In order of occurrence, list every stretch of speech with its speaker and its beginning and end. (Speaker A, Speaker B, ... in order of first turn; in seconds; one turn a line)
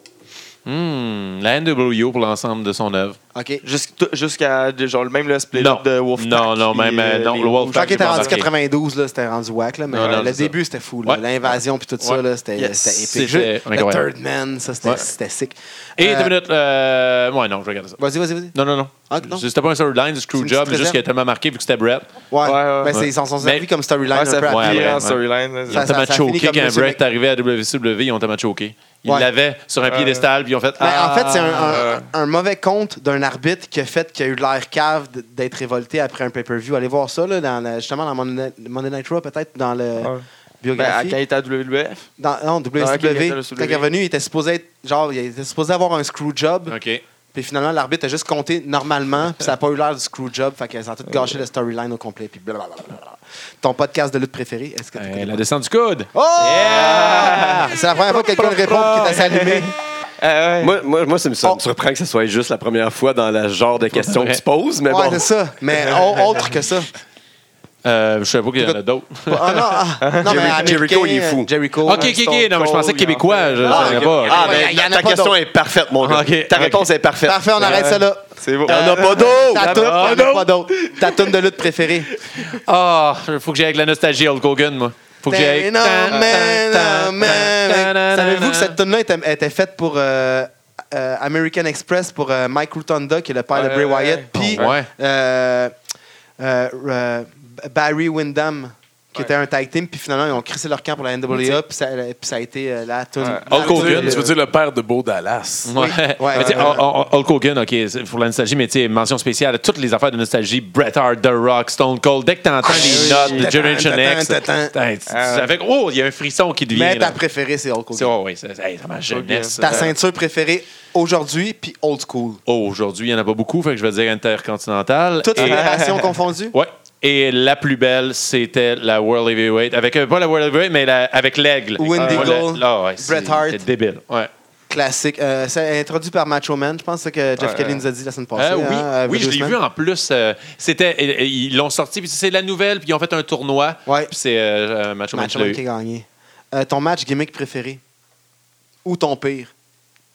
Speaker A: 0.7-3.2
Speaker B: 3.3-3.6
Speaker C: 3.6-8.4
Speaker A: 5.6-8.5
Speaker B: 7.7-16.3
Speaker A: 9.9-12.2
Speaker C: 12.6-13.1
Speaker A: 13.1-14.1
Speaker A: 16.0-18.0
Speaker B: 18.0-18.6
Speaker A: 18.5-22.1
Speaker B: 19.1-19.4
Speaker B: 20.4-21.0
Speaker B: 22.3-25.0
Speaker C: 22.4-23.0
Speaker A: 22.9-23.7
Speaker C: 24.1-25.9
Speaker A: 24.4-31.7
Speaker B: 25.7-27.0
Speaker C: 29.9-30.3
Speaker B: 30.8-41.2
Speaker C: 31.4-32.1
Speaker C: 40.0-40.2
Speaker C: 40.8-42.1
Speaker B: 42.2-46.8
Speaker C: 42.8-43.9
Speaker A: 46.7-47.0
Speaker B: 47.3-55.4
Speaker A: 55.0-59.3
Speaker B: 56.1-59.7
Speaker C: 56.6-57.7
Speaker C: 58.7-60.8
Speaker D: 60.6-65.3
Speaker A: 63.9-64.4
Speaker B: 64.9-66.9
Speaker A: 67.8-69.8
Speaker B: 68.6-72.2
Speaker C: 70.0-70.6
Speaker D: 70.2-71.5
Speaker A: 71.8-74.6
Speaker C: 71.9-74.7
Speaker B: 73.7-75.4
Speaker D: 73.7-77.4
Speaker A: 76.0-76.9
Speaker B: 77.2-82.1
Speaker C: 77.6-80.2
Speaker D: 78.7-79.9
Speaker A: 79.7-80.5
Speaker A: 82.4-88.8
Speaker B: 85.3-95.8
Speaker C: 86.1-86.4
Speaker C: 93.5-94.8
Speaker A: 94.4-94.9
Speaker B: 96.4-104.3
Speaker C: 103.2-104.1
Speaker A: 103.5-104.2
Speaker E: 103.6-105.7
Speaker A: 105.7-117.2
Speaker B: 105.8-106.8
Speaker C: 106.4-106.8
Speaker B: 112.6-114.7
Speaker C: 112.7-113.5
Speaker C: 115.1-115.5
Speaker B: 116.7-118.1
Speaker A: 117.9-119.9
Speaker C: 119.1-119.9
Speaker B: 119.6-122.4
Speaker A: 122.5-125.7
Speaker B: 125.2-126.5
Speaker C: 125.4-126.1
Speaker A: 126.5-134.3
Speaker B: 131.8-133.7
Speaker C: 132.0-132.4
Speaker B: 134.7-139.6
Speaker C: 137.4-137.8
Speaker A: 138.4-145.6
Speaker B: 145.1-147.8
Speaker B: 148.8-149.5